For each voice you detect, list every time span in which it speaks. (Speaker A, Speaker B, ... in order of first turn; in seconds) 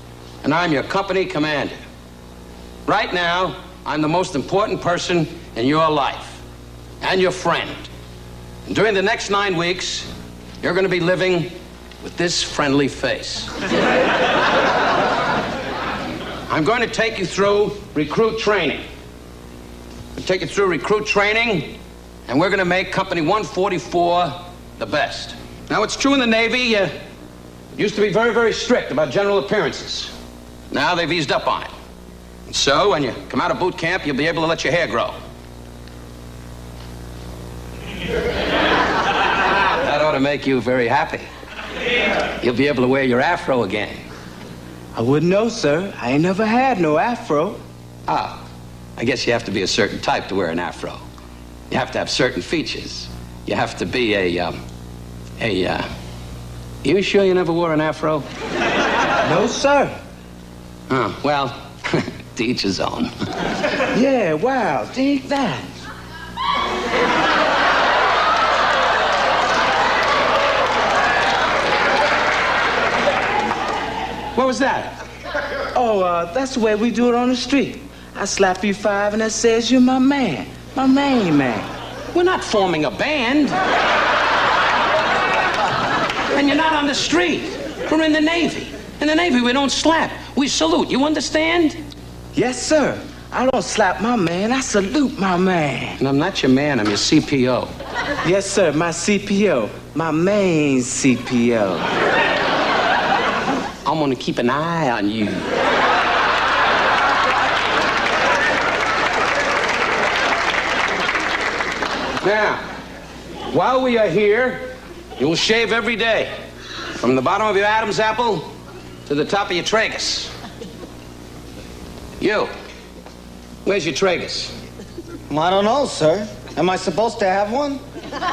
Speaker A: 0.4-1.8, 2.9-6.4, 7.0-7.9, 8.7-10.1, 10.6-13.5, 16.5-18.9, 20.1-26.9, 27.8-30.1, 30.7-31.7, 32.5-35.2, 39.6-41.3, 42.4-44.0, 48.1-48.4, 49.0-51.0, 51.7-54.6, 55.4-55.9, 56.8-58.2, 60.9-63.1, 74.4-75.0, 82.1-83.5, 86.3-91.8, 96.0-97.7, 103.8-105.5, 112.2-112.6, 113.5-116.3, 117.0-118.5, 119.1-120.3, 122.2-122.5, 123.7-124.5
Speaker B: 44.9-47.6, 59.2-60.0, 63.9-65.7, 75.7-81.7, 92.3-96.0, 98.2-101.9
Speaker C: 125.3-127.8